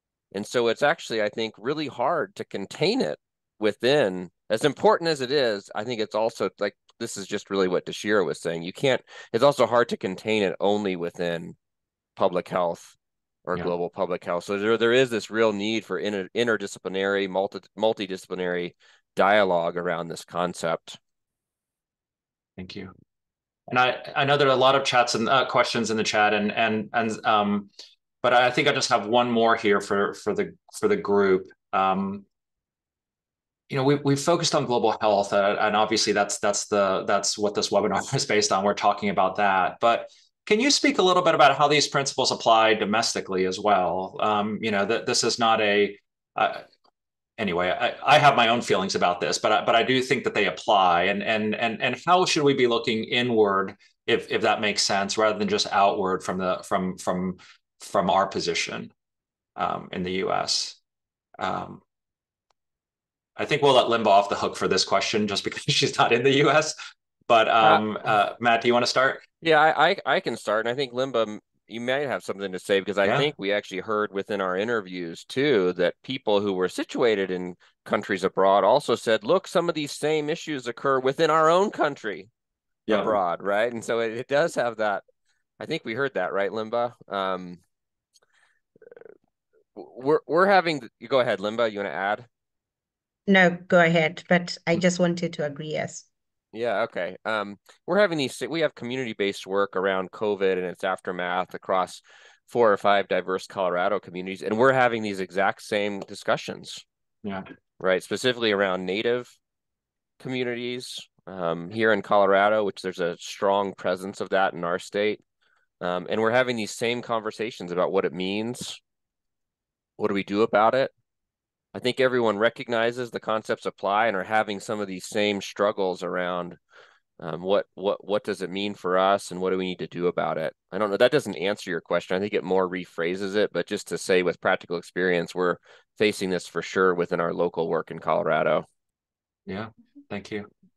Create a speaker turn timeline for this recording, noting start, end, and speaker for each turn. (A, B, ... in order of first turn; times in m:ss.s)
0:00.3-0:11.6 A
0:12.2-0:13.0 A
0:13.4-0:21.0 A
0:22.6-0:22.9 B
0:23.7-0:27.7 B
0:28.2-0:32.2 B
0:33.7-0:46.6 B
0:47.4-0:58.9 B
0:59.6-1:00.8 B
1:01.4-1:01.8 B
1:03.4-1:06.7 B
1:07.3-1:09.2 B
1:09.4-1:22.3 A
1:13.0-1:13.3 B
1:22.9-1:23.2 B
1:22.9-1:25.0 A
1:25.6-1:27.6 A
1:29.8-1:32.3 A
1:33.3-1:36.1 C
1:36.5-1:46.8 A
1:47.8-1:49.4 A
1:50.2-1:55.2 A
1:55.8-1:58.8 A
2:00.0-2:00.9 A
2:01.7-2:06.6 A
2:07.2-2:18.7 A
2:19.5-2:20.5 B